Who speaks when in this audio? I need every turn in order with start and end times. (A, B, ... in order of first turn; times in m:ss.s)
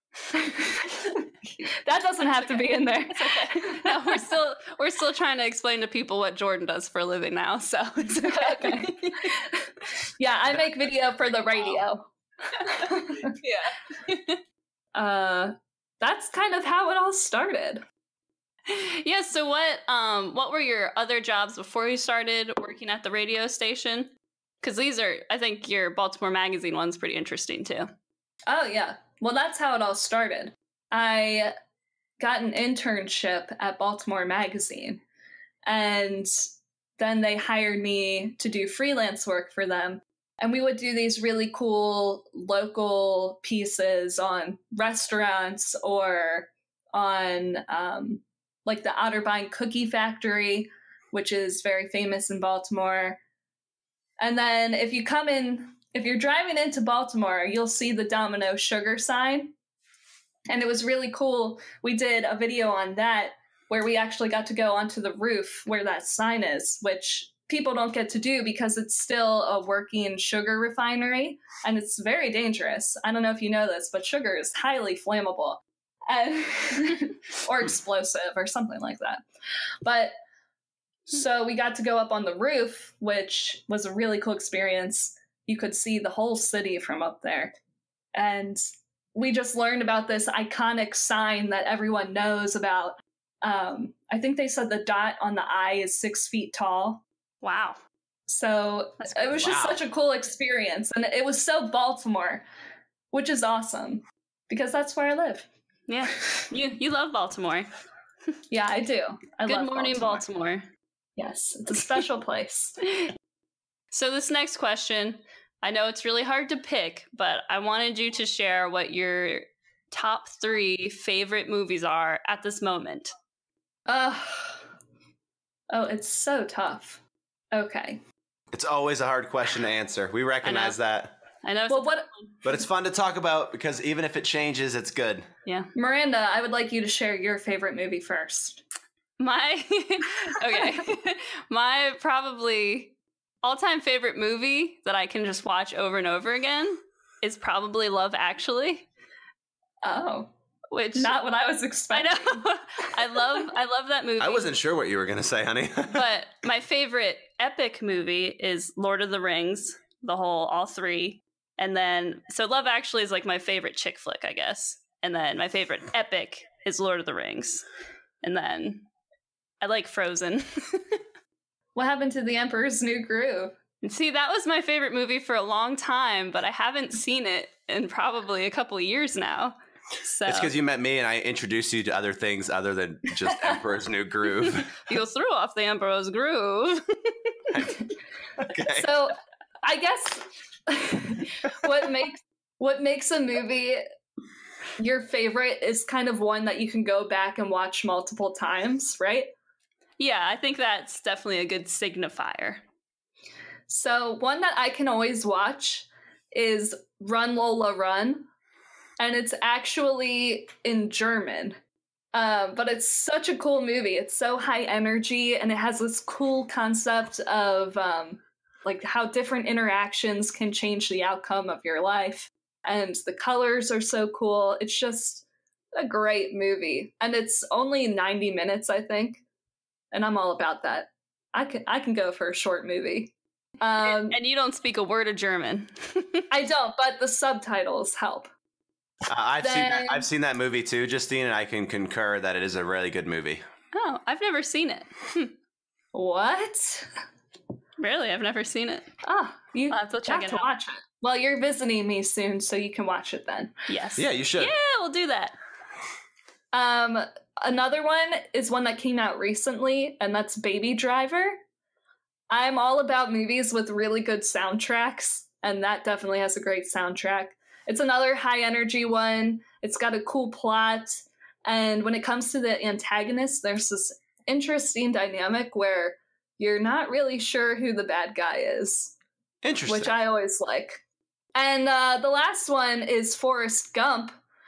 0:00.3-0:04.2 A
0:02.3-0:09.3 B
0:08.2-0:09.7 A
0:10.2-0:13.3 A
0:13.3-0:14.4 B
0:14.9-0:17.8 A
0:18.7-0:24.1 B
0:24.6-0:27.9 B
0:28.5-0:31.5 A
0:32.2-0:35.0 A
0:35.6-0:53.2 A
0:54.2-0:59.5 A
1:00.5-1:19.2 A
1:19.8-1:20.1 A
1:21.1-1:27.5 A
1:28.1-1:37.0 A
1:37.4-1:37.8 B
1:38.3-1:42.4 A
1:39.3-1:39.8 C
1:43.1-1:45.5 A
1:45.9-1:47.7 B
1:48.5-1:50.2 A
1:49.5-1:50.7 B
1:51.2-1:52.7 A
1:53.9-2:03.1 B
2:03.9-2:04.6 A
2:05.7-2:07.0 A
2:07.5-2:08.0 A
2:08.5-2:11.1 C
2:10.4-2:10.8 B
2:11.4-2:12.0 B
2:11.7-2:12.1 A
2:12.4-2:15.3 C
2:15.7-2:18.6 A
2:19.2-2:28.8 B
2:29.8-2:30.3 A
2:30.7-2:31.1 B
2:30.9-2:32.4 A
2:31.9-2:34.4 B
2:34.2-2:36.1 C
2:35.9-2:47.6 B
2:48.2-2:48.8 B
2:49.6-2:51.0 B
2:51.8-2:53.5 A
2:53.8-3:00.5 B
3:00.2-3:04.7 C
3:04.7-3:07.5 B
3:08.4-3:08.9 C
3:08.7-3:13.8 A
3:14.8-3:19.3 A
3:20.0-3:22.6 B
3:23.7-3:28.3 A
3:29.0-3:31.6 A
3:32.1-3:45.2 A
3:45.8-3:49.2 A
3:49.9-3:54.2 A
3:53.8-3:56.2 B
3:56.3-3:58.3 A
3:59.0-4:03.4 C
3:59.4-4:00.0 A
4:03.7-4:05.3 B
4:05.9-4:06.9 A
4:07.8-4:08.9 B
4:09.0-4:13.5 A
4:09.7-4:10.5 B
4:13.7-4:15.3 B
4:14.0-4:14.5 C
4:16.5-4:21.4 A
4:22.3-4:38.9 A
4:39.4-4:39.9 C
4:39.6-4:40.8 A
4:41.4-4:44.2 A